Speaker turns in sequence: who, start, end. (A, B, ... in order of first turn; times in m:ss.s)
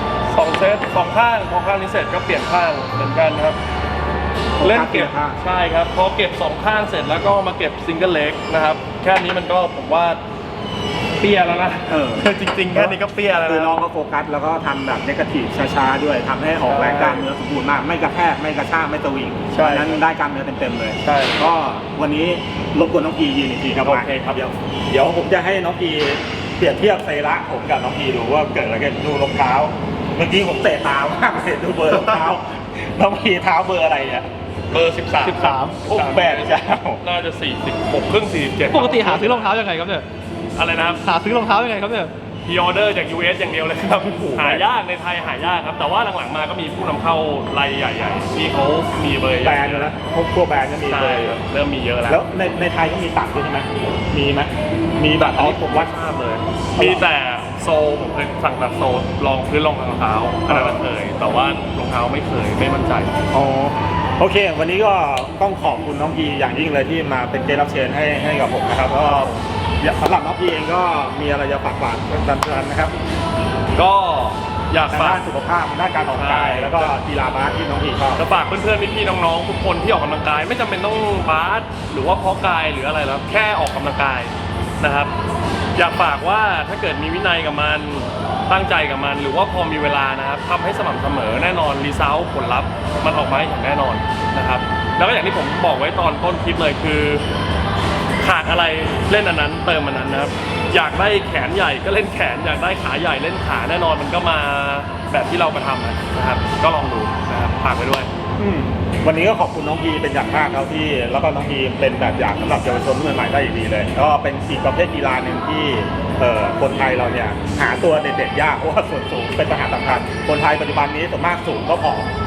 0:00.3-0:03.6 A
0:04.6-0:05.4 B
0:04.6-0:10.2 A
0:11.2-0:13.8 A
0:11.9-0:34.3 B
0:16.6-0:17.3 A
0:19.5-0:20.0 A
0:21.0-0:21.5 A
0:23.8-0:24.5 A
0:34.7-0:39.5 A
0:35.2-0:35.8 C
0:35.9-0:37.0 B
0:38.7-0:40.0 C
0:40.6-0:41.0 A
0:40.8-0:42.1 C
0:42.4-0:50.0 A
0:44.2-0:44.6 B
0:49.4-0:51.4 B
0:50.9-0:52.2 A
0:52.1-0:55.9 B
0:55.1-1:03.2 A
0:56.8-0:57.0 B
1:00.5-1:01.5 B
1:03.3-1:13.0 B
1:08.9-1:09.4 A
1:13.7-1:15.3 A
1:14.9-1:18.2 B
1:16.1-1:17.0 A
1:18.2-1:25.1 A
1:25.8-1:37.2 A
1:38.2-1:48.1 A
1:48.4-2:02.1 B